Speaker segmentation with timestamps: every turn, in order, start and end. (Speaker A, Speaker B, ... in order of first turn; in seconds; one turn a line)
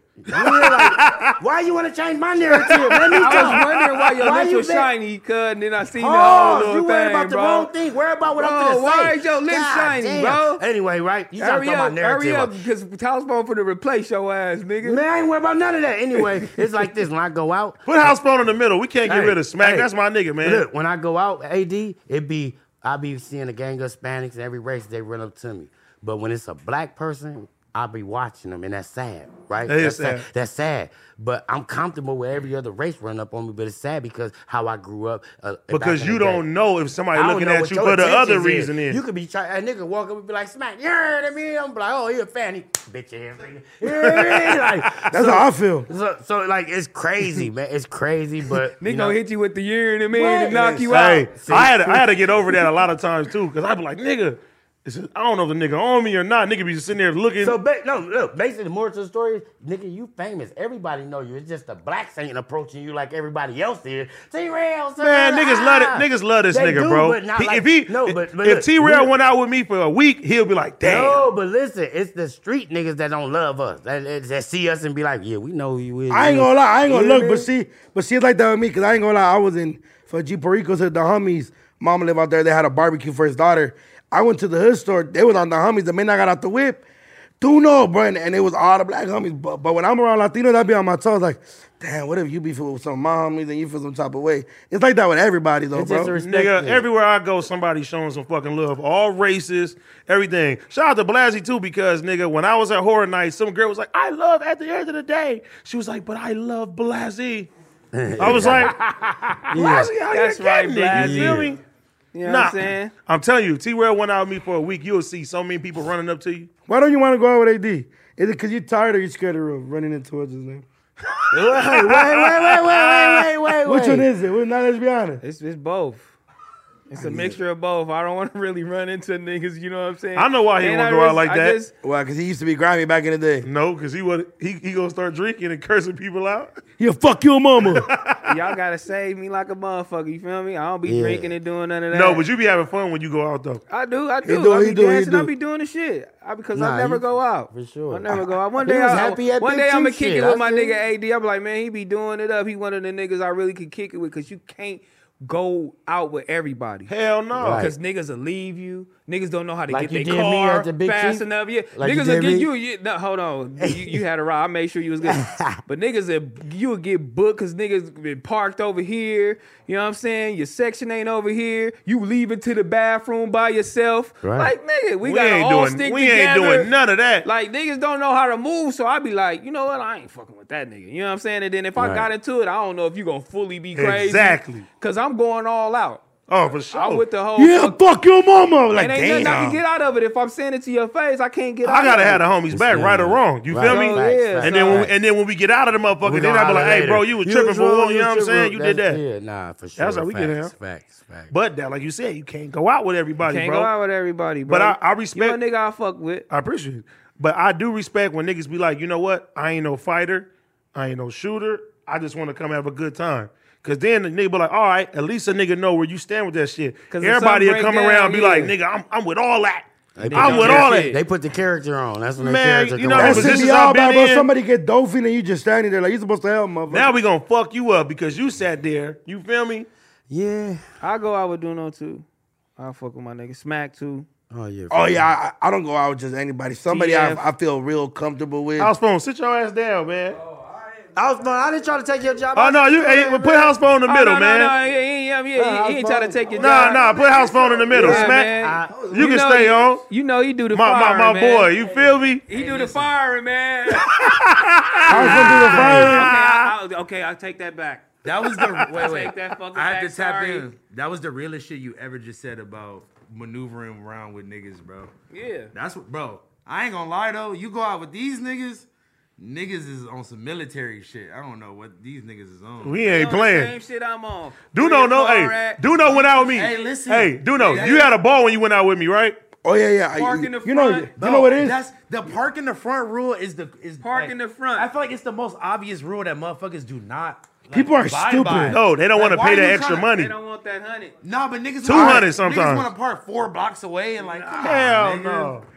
Speaker A: 0.2-4.9
Speaker B: 0.3-1.4
Speaker B: 2.5-4.1
Speaker C: 3.2-7.7
Speaker A: 5.9-12.5
Speaker C: 8.3-10.6
Speaker C: 11.4-15.0
Speaker A: 14.8-18.1
Speaker B: 17.9-20.6
Speaker A: 19.0-19.9
Speaker A: 20.4-36.4
Speaker B: 29.6-30.2
Speaker B: 35.7-39.0
Speaker A: 37.1-49.2
Speaker B: 43.9-45.1
Speaker D: 45.1-45.9
Speaker C: 48.8-51.3
Speaker D: 50.2-50.8
Speaker A: 50.2-52.0
Speaker B: 50.9-57.6
Speaker A: 57.4-69.1
Speaker B: 65.0-71.3
Speaker A: 70.8-77.5
Speaker D: 76.1-86.8
Speaker D: 87.4-96.1
Speaker A: 95.7-96.8
Speaker B: 96.2-107.5
Speaker A: 107.9-109.9
Speaker B: 108.2-108.7
Speaker B: 109.5-111.6
Speaker C: 109.5-111.5
Speaker A: 110.9-111.5
Speaker C: 112.1-112.9
Speaker B: 112.2-116.5
Speaker D: 116.7-120.6
Speaker B: 121.2-123.3
Speaker A: 121.3-124.1
Speaker D: 123.6-125.2
Speaker C: 125.2-126.1
Speaker C: 126.9-131.7
Speaker A: 127.0-127.3
Speaker B: 130.2-131.6
Speaker D: 131.8-133.5
Speaker B: 133.4-136.5
Speaker D: 136.8-137.9
Speaker B: 137.6-138.3
Speaker C: 138.2-142.2
Speaker A: 140.8-141.3
Speaker B: 141.9-143.6
Speaker C: 143.7-156.9
Speaker D: 144.2-145.3
Speaker A: 146.5-150.8
Speaker B: 156.9-157.7
Speaker A: 157.3-157.8
Speaker C: 157.5-176.7
Speaker A: 159.7-162.5
Speaker A: 163.6-164.0
Speaker A: 165.0-165.6
Speaker A: 174.2-174.5
Speaker B: 175.0-177.2
Speaker C: 177.2-186.0
Speaker A: 181.8-182.1
Speaker B: 183.8-184.6
Speaker B: 186.3-187.0
Speaker C: 186.7-187.8
Speaker D: 187.3-189.6
Speaker C: 188.7-192.2
Speaker B: 191.6-199.0
Speaker A: 192.5-194.9
Speaker C: 193.6-194.9
Speaker A: 196.0-201.3
Speaker B: 199.8-200.5
Speaker B: 201.3-203.7
Speaker C: 203.2-206.2
Speaker B: 204.5-205.4
Speaker B: 206.3-220.9
Speaker C: 216.9-218.5
Speaker A: 219.9-223.5
Speaker C: 220.0-221.0
Speaker B: 222.2-224.3
Speaker D: 222.9-226.9
Speaker B: 226.7-229.7
Speaker A: 230.1-230.6
Speaker C: 230.8-232.0
Speaker C: 232.6-234.1
Speaker A: 234.3-235.1
Speaker D: 234.7-238.7
Speaker C: 236.7-237.3
Speaker B: 238.6-240.2
Speaker E: 240.3-240.8
Speaker A: 240.9-243.5
Speaker B: 242.3-244.5
Speaker C: 243.8-246.9
Speaker A: 245.3-246.4
Speaker B: 246.4-248.3
Speaker C: 247.7-251.5
Speaker A: 247.7-249.1
Speaker B: 248.9-249.8
Speaker B: 250.5-252.2
Speaker C: 252.3-254.1
Speaker E: 252.3-252.9
Speaker B: 253.8-256.5
Speaker C: 254.8-257.9
Speaker D: 254.9-256.1
Speaker A: 255.0-255.9
Speaker E: 258.0-264.9
Speaker B: 258.4-258.6
Speaker C: 258.6-260.5
Speaker C: 265.1-265.5
Speaker E: 265.5-273.0
Speaker B: 272.6-273.5
Speaker C: 272.9-276.3
Speaker B: 274.5-279.2
Speaker E: 275.9-277.9
Speaker C: 277.3-277.8
Speaker D: 279.4-281.6
Speaker C: 279.9-280.9
Speaker E: 281.0-289.9
Speaker C: 283.8-284.7
Speaker D: 287.5-288.6
Speaker B: 288.5-290.1
Speaker C: 289.9-290.9
Speaker E: 291.0-295.4
Speaker B: 291.6-292.7
Speaker D: 291.7-292.1
Speaker C: 294.0-294.6
Speaker B: 294.4-295.4